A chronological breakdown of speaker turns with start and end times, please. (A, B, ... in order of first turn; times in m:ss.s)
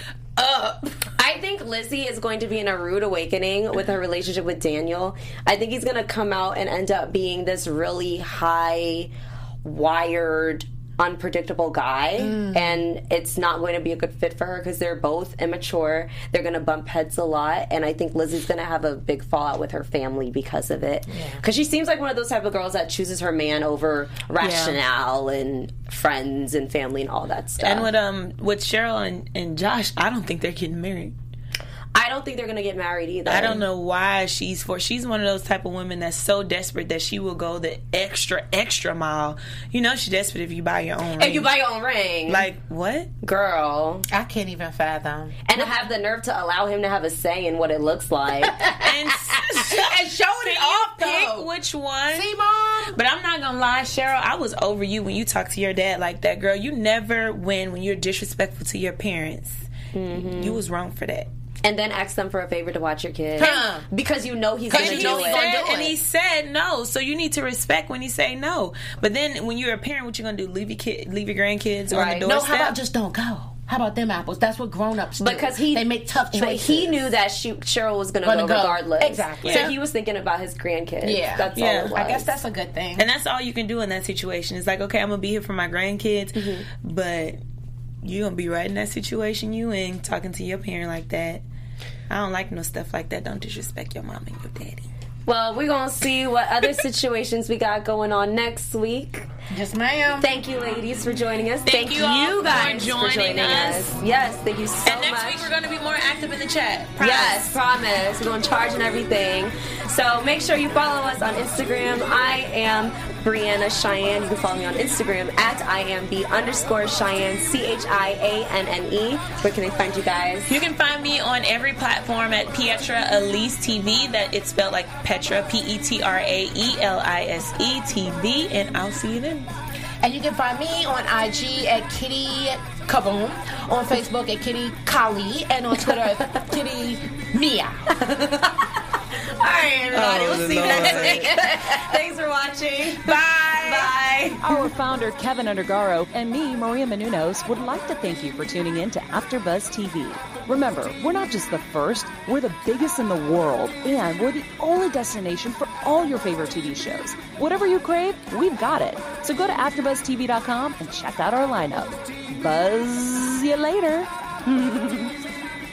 0:00.4-0:00.9 A
0:01.2-0:09.1 B
0:09.6-0:27.9 B
0:12.2-0:12.8 C
0:21.1-0:21.4 C
0:24.4-0:24.8 A
0:27.6-0:31.1 A
0:31.9-0:33.6 B
0:33.2-0:41.5 A
0:41.1-0:42.5 B
0:42.3-0:43.1 A
0:43.2-0:44.1 B
0:44.1-0:45.8 C
0:45.4-0:48.6 B
0:48.4-0:51.5 C
0:48.8-0:52.3 A
0:52.1-0:53.0 C
0:52.9-1:01.3 A
0:59.9-1:00.6 B
1:01.6-1:05.9 B
1:03.4-1:03.8 C
1:04.7-1:05.9 C
1:04.7-1:12.8 A
1:11.9-1:12.3 B
1:12.2-1:17.0 C
1:15.2-1:22.3 B
1:18.2-1:19.7 C
1:19.4-1:19.7 A
1:21.0-1:23.1 C
1:21.6-1:22.0 A
1:23.0-1:27.4 A
1:26.3-1:26.7 B
1:28.0-1:31.4 A
1:32.1-1:34.9 A
1:35.3-1:39.3 B
1:39.5-1:40.3 C
1:40.2-1:45.5 B
1:41.6-1:44.0 A
1:44.8-1:47.5 A
1:47.0-2:00.6 B
2:00.5-2:09.5 A
2:10.0-2:18.0 C
2:17.9-2:24.6 B
2:19.9-2:21.3 A
2:20.5-2:22.0 C
2:23.0-2:23.9 C
2:24.4-2:45.1 D